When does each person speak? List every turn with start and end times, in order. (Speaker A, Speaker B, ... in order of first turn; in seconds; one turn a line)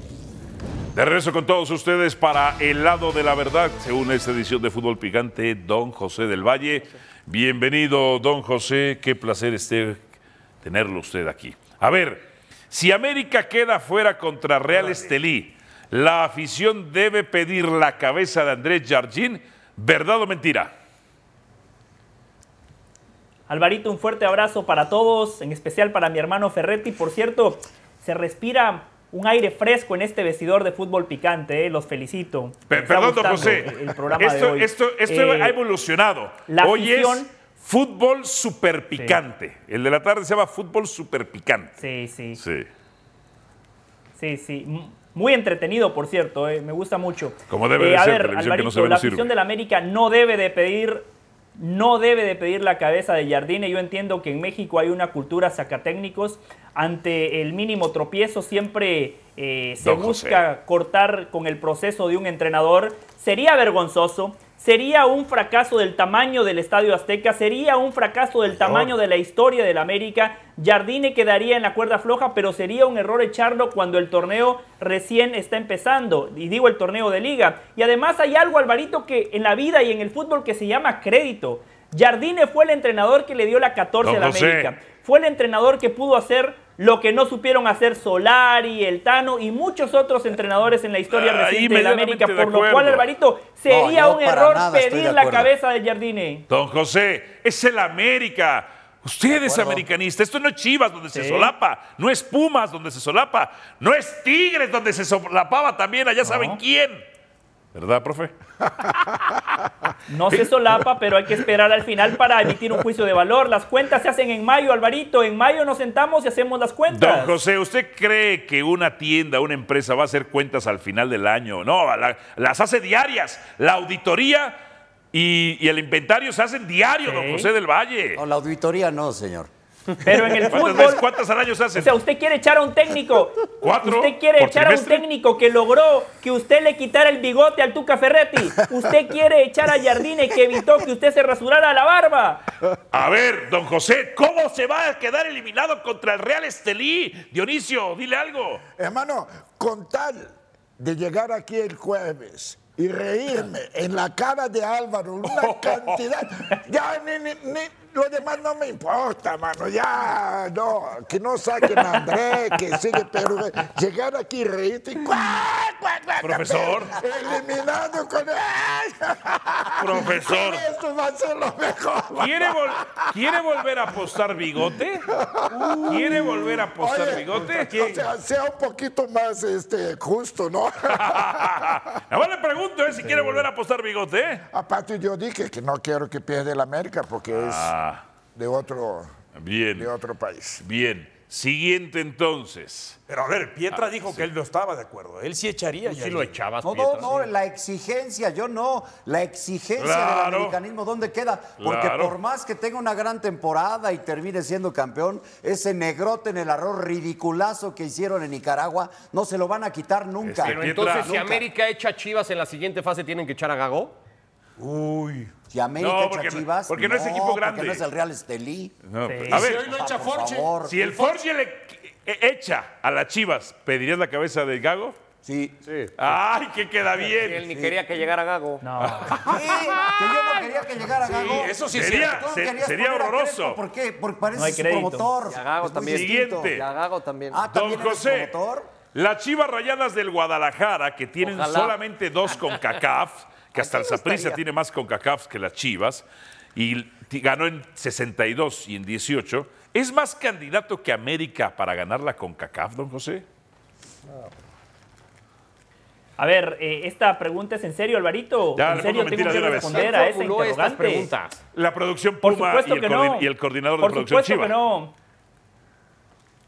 Speaker A: 0.9-10.0
Speaker A: 10.6-20.7
Speaker B: 14.7-15.1
Speaker C: 23.5-35.6
Speaker A: 32.7-41.8
Speaker C: 36.5-37.3
Speaker C: 41.8-42.4
Speaker A: 42.4-42.7
Speaker C: 44.1-96.5
Speaker A: 47.5-49.3
Speaker A: 59.8-60.4
Speaker A: 68.5-68.9
Speaker A: 84.0-84.7
Speaker A: 91.1-93.1
Speaker D: 93.7-95.5
Speaker A: 96.5-107.0
Speaker D: 99.3-99.8
Speaker C: 101.1-101.5
Speaker C: 106.2-106.6
Speaker A: 107.7-109.2
Speaker C: 110.1-117.3
Speaker A: 116.9-124.6
Speaker A: 125.1-128.2
Speaker C: 127.0-127.5
Speaker D: 128.2-129.5
Speaker C: 130.0-131.0
Speaker A: 130.4-131.9
Speaker C: 131.7-142.4
Speaker A: 133.6-135.0
Speaker A: 142.9-148.6
Speaker E: 148.8-172.9
Speaker A: 155.3-156.0
Speaker A: 166.2-166.9
Speaker A: 169.8-170.7
Speaker A: 172.2-175.1
Speaker E: 175.2-181.7
Speaker B: 175.5-176.2
Speaker A: 175.9-177.8
Speaker B: 177.3-178.1
Speaker A: 180.9-184.4
Speaker E: 184.5-187.7
Speaker A: 187.3-188.0
Speaker E: 188.3-189.1
Speaker A: 189.3-189.9
Speaker E: 189.8-190.6
Speaker A: 190.6-193.0
Speaker B: 193.1-196.4
Speaker A: 193.7-194.3
Speaker F: 195.8-197.3
Speaker D: 196.6-211.4
Speaker A: 199.8-200.6
Speaker A: 201.6-202.1
Speaker A: 210.2-211.1
Speaker F: 210.4-213.9
Speaker B: 214.6-215.3
Speaker D: 215.5-218.7
Speaker A: 215.8-217.8
Speaker A: 218.9-219.7
Speaker C: 219.0-219.4
Speaker B: 219.3-221.2
Speaker D: 219.4-220.9
Speaker A: 220.6-225.0
Speaker D: 225.2-225.6
Speaker A: 226.0-227.5
Speaker F: 227.1-228.6
Speaker D: 227.5-227.8
Speaker C: 228.6-229.2
Speaker A: 228.8-230.5
Speaker D: 229.2-236.6
Speaker B: 231.0-232.3
Speaker A: 231.7-233.6
Speaker C: 234.3-235.1
Speaker G: 235.3-237.4
Speaker A: 235.9-236.6
Speaker D: 237.3-238.7
Speaker A: 237.5-238.3
Speaker A: 238.9-253.2
Speaker G: 241.2-241.7
Speaker G: 243.6-244.4
Speaker C: 256.2-261.1
Speaker A: 258.6-259.9
Speaker F: 259.3-261.4
Speaker A: 261.5-264.6
Speaker C: 262.2-264.9